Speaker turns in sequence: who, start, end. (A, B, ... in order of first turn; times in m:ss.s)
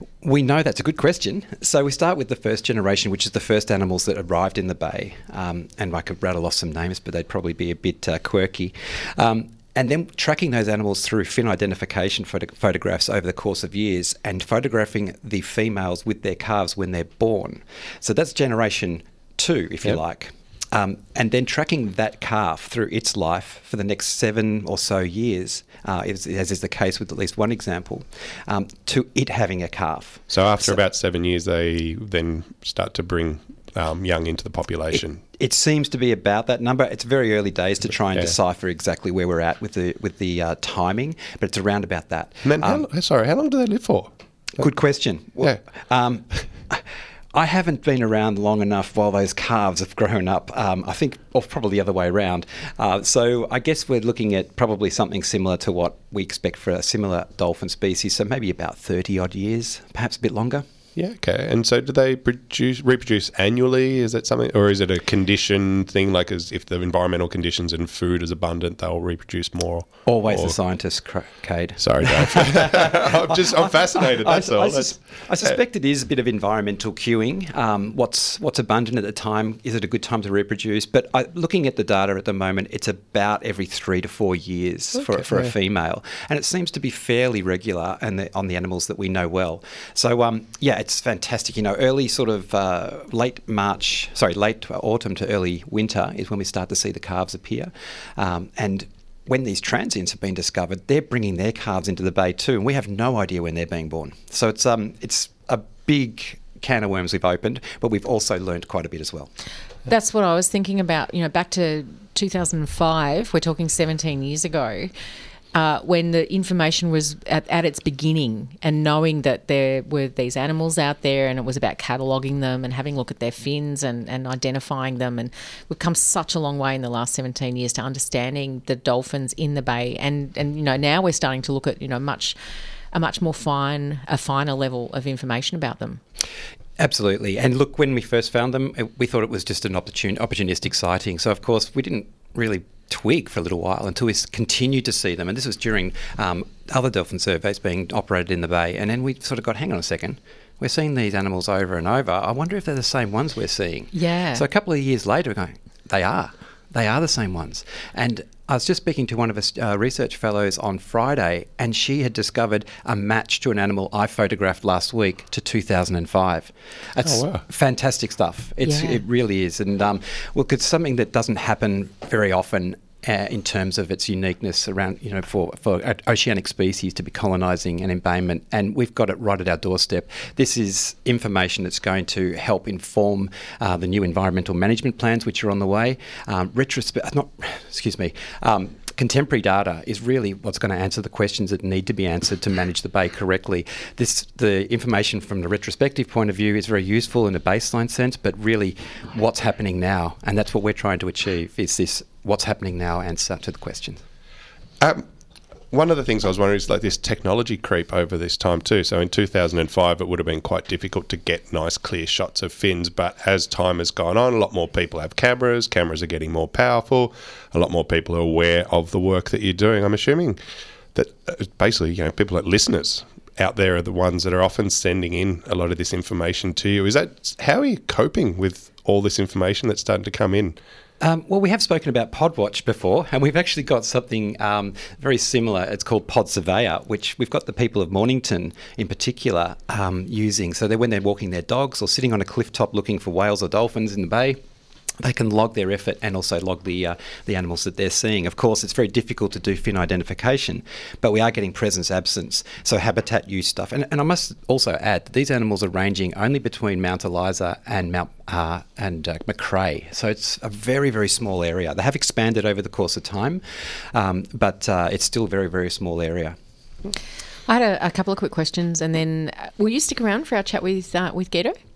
0:00.2-0:30.8 A
0:30.3-0:35.2 B
0:35.4-0:42.8 A
0:42.4-0:44.1 B
0:44.6-1:00.6 A
1:01.0-1:10.6 B
1:10.0-1:49.3 A
1:11.8-1:15.6 B
1:25.0-1:25.5 B
1:49.9-1:54.9 C
1:55.5-2:12.4 C
2:12.9-2:16.0 C
2:16.8-3:24.0 A
2:33.9-2:34.4 C
2:47.0-2:47.4 B
2:48.6-2:49.0 C
3:25.7-3:40.4 B
3:40.9-3:50.6 B
3:51.0-4:04.4 A
4:05.0-4:26.4 A
4:27.5-4:31.6 C